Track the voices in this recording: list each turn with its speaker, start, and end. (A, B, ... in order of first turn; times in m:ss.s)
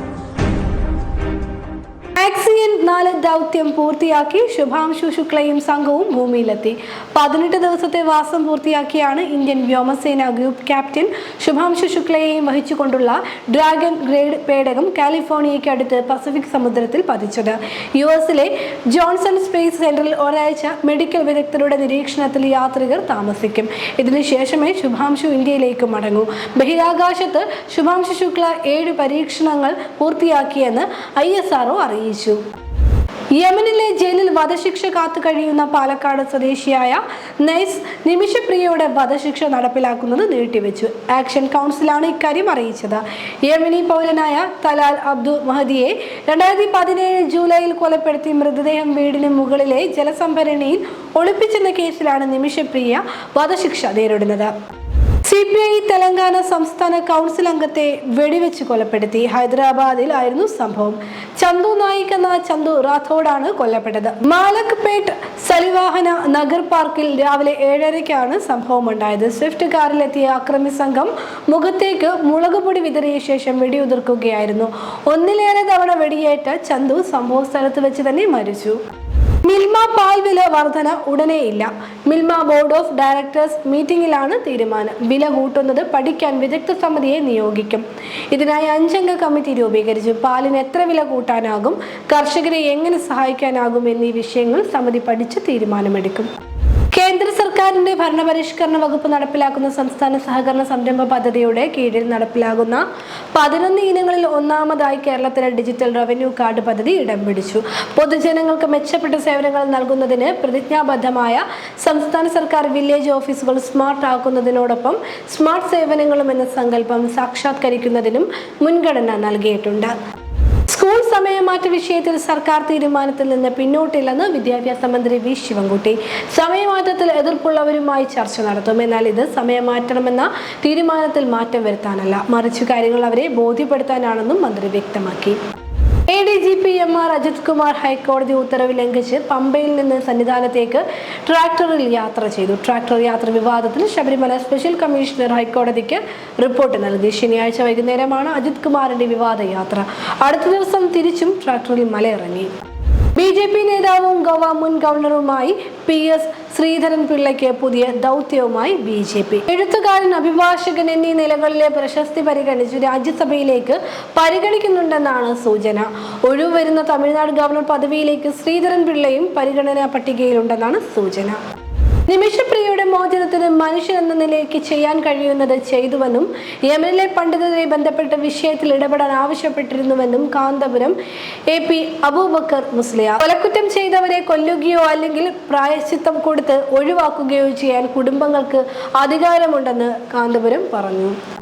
0:02.2-0:32.4 A
0:33.4-0:54.5 A
0:55.2-1:18.8 A
1:19.4-1:36.3 A
1:36.9-1:42.8 A
1:43.3-1:59.9 A
2:00.7-2:15.4 A
2:16.1-2:32.5 A
2:33.2-2:51.4 A
2:52.1-3:01.0 A
3:01.5-3:11.2 A